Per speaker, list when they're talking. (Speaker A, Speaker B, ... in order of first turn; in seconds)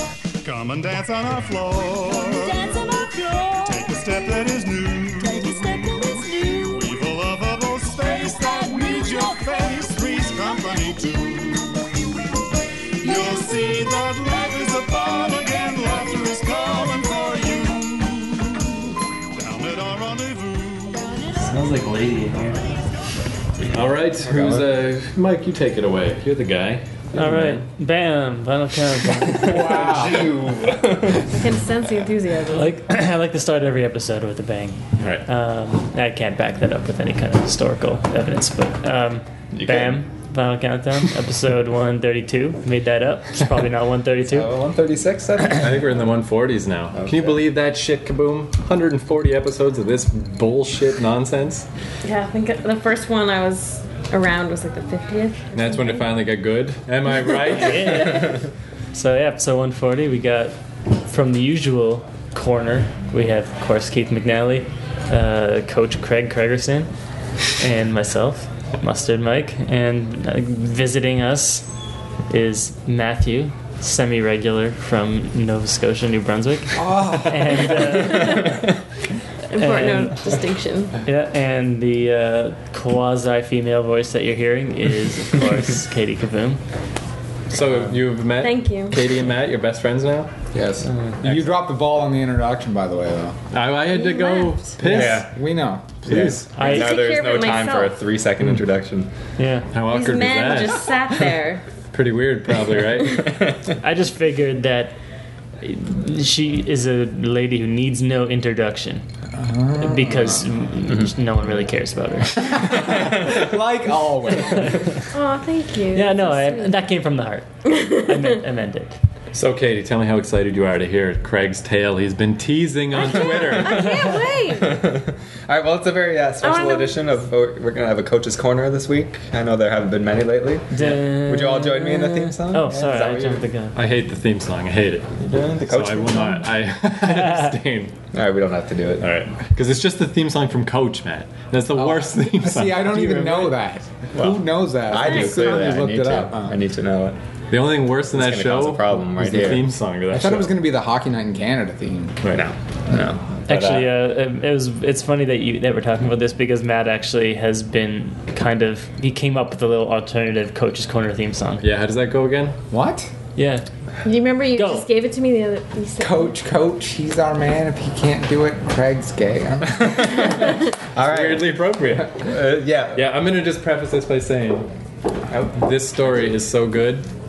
Speaker A: 0.4-2.8, 3.6-11.8, 13.0-18.8, 19.4-21.1
Speaker B: 2.1-4.3, 5.2-7.0, 8.1-11.2, 13.0-14.5, 15.6-17.5, 21.0-21.5
Speaker C: 21.7-22.5, 27.1-29.6, 32.5-44.5, 57.5-60.5, 61.1-66.9, 67.6-71.7, 72.3-78.6, 79.6-80.3, 81.0-86.6, 96.6-97.0, 99.4-99.7, 103.8-104.9, 105.6-109.0, 109.8-112.8, 115.9-119.0, 130.7-133.8, 153.5-161.7, 163.4-163.7, 164.5-164.9
Speaker D: 23.7-27.6, 35.0-35.2, 45.5-51.7, 55.5-58.1, 87.5-90.3, 93.5-95.3, 96.0-96.5, 99.7-101.0, 101.9-103.4, 119.3-124.0, 133.8-137.9, 139.0-143.6, 147.5-150.5, 152.2-152.5, 161.6-162.6, 171.0-172.2, 172.9-174.7, 175.5-177.1
Speaker E: 24.3-24.6, 29.4-30.4, 76.8-77.6, 91.2-93.4, 94.9-96.0, 109.3-110.2, 112.8-114.8, 141.8-146.6, 150.1-152.2, 162.7-163.1, 166.0-170.2
Speaker F: 29.4-31.2, 39.5-40.0, 44.2-45.9, 46.9-47.4, 90.5-91.0, 94.8-95.3, 96.1-99.1, 103.1-103.6, 112.8-113.4, 123.1-123.9, 124.5-133.4, 135.2-136.5, 138.1-139.1, 144.1-147.2, 148.1-149.6, 152.3-153.9, 169.8-173.1
Speaker G: 31.3-32.7, 52.0-56.0, 57.7-58.0, 77.9-78.5, 79.5-80.9, 88.4-89.0, 93.9-94.8, 96.6-98.0, 99.9-101.7, 115.1-116.8, 117.7-118.2, 122.9-124.8, 126.4-127.1, 145.0-145.7, 164.0-166.3